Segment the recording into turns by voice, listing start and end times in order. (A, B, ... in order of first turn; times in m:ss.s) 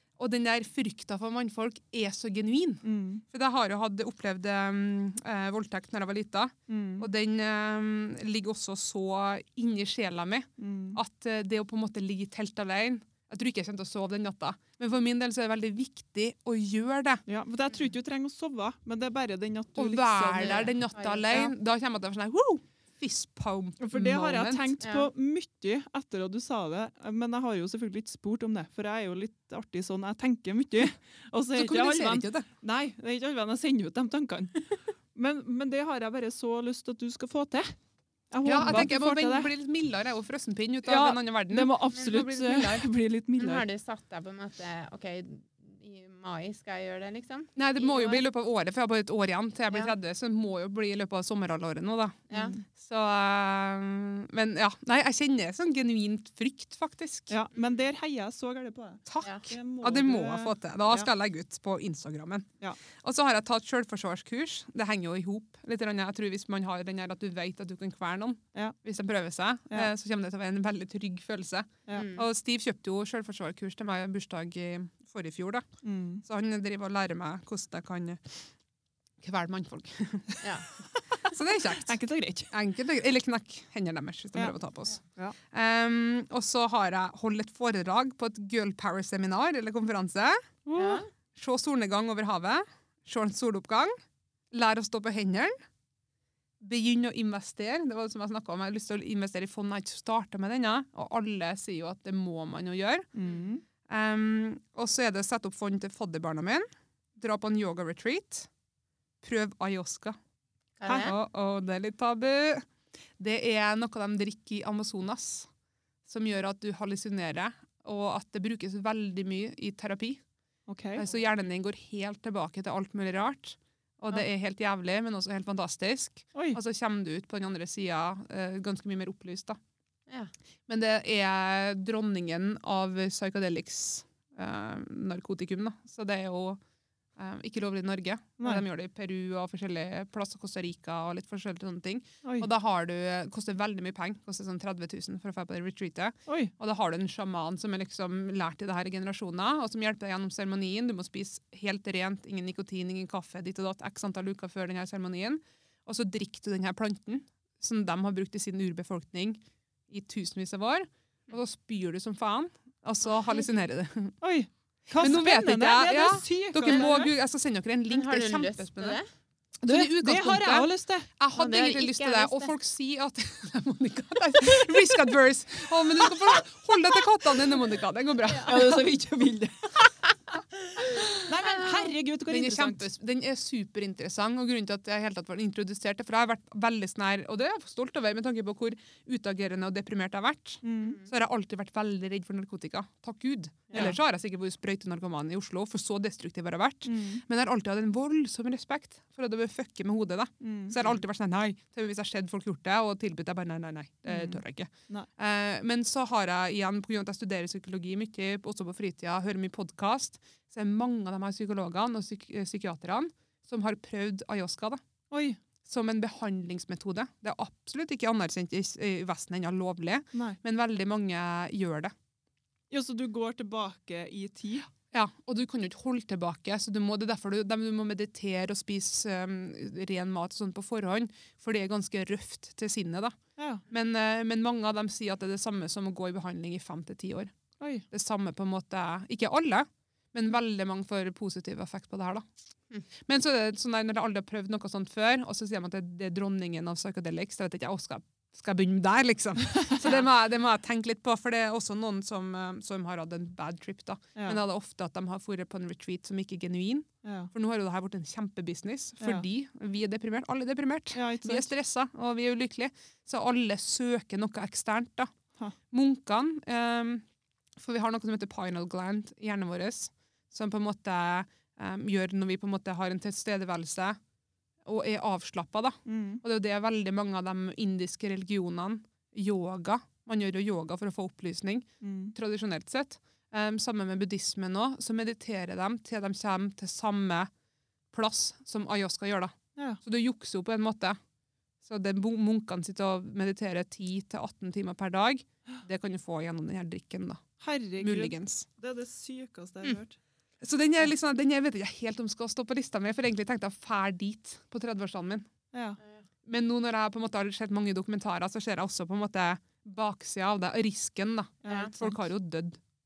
0:00.2-0:17.2 A
0:02.8-0:03.2 B
0:06.7-0:07.1 B
0:10.6-0:11.0 B
0:17.3-0:20.8 B
0:19.8-0:24.8 A
0:20.4-0:21.5 C
0:23.8-0:37.8 B
0:24.8-0:25.1 C
0:31.5-0:32.5 A
0:38.3-0:39.5 B
0:38.4-0:42.9 A
0:40.8-0:43.7 B
0:43.4-0:48.2 C
0:47.6-0:57.3 A
0:52.3-0:52.6 C
0:52.3-0:52.6 B
0:57.3-1:01.1 B
0:59.1-1:15.6 A
1:11.9-1:12.3 C
1:15.8-1:16.2 B
1:16.2-1:18.4 A
1:19.2-1:20.4 A
1:20.9-1:22.5 B
1:21.3-1:22.0 A
1:22.5-1:30.4 A
1:30.7-1:31.0 B
1:30.8-1:31.1 C
1:31.4-1:33.9 A
1:34.5-1:35.6 A
1:36.6-1:43.1 A
1:43.2-1:43.6 B
1:43.9-1:46.7 A
1:47.2-1:48.5 A
1:49.2-1:50.2 A
1:50.8-1:51.2 C
1:50.9-1:51.2 B
1:51.0-1:52.7 A
1:53.2-1:55.5 A
1:56.1-2:00.2 A
2:00.7-2:01.0 B
2:01.0-2:09.6 A
2:06.4-2:06.6 B
2:10.7-2:16.6 A
2:17.2-2:44.2 A
2:18.4-2:18.6 B
2:22.2-2:22.5 B
2:26.3-2:26.5 B
2:44.2-2:47.1 B
2:45.0-2:49.0 A
2:47.9-2:49.1 C
2:49.6-2:51.1 B
2:49.6-2:58.9 A
2:51.4-2:52.5 C
2:58.4-2:59.9 B
3:00.8-3:02.8 B
3:01.5-3:01.9 C
3:02.3-3:34.8 A
3:10.6-3:11.0 B
3:13.7-3:14.0 B
3:16.9-3:17.2 B
3:20.4-3:21.0 B
3:24.1-3:25.1 B
3:35.1-3:35.4 B
3:35.6-3:41.9 A
3:42.7-3:44.7 B
3:44.9-3:53.2 A
3:53.4-3:53.6 B
3:53.7-3:57.3 A
3:57.6-3:57.9 B
3:57.9-4:02.3 A
4:03.0-4:25.1 A
4:14.2-4:14.4 B
4:17.0-4:17.3 B
4:19.0-4:19.3 B
4:21.0-4:21.5 B
4:25.7-4:27.0 A
4:27.6-4:34.0 A
4:34.7-4:47.3 A
4:35.9-4:36.2 B
4:41.8-4:42.2 B
4:47.9-4:51.0 A
4:49.6-4:49.8 B
4:51.6-4:57.3 A
4:57.4-5:00.0 B
4:57.8-4:58.5 A
5:00.4-5:05.3 A
5:05.5-5:05.8 B
5:06.3-5:12.6 A
5:11.4-5:12.0 B
5:11.5-5:11.7 C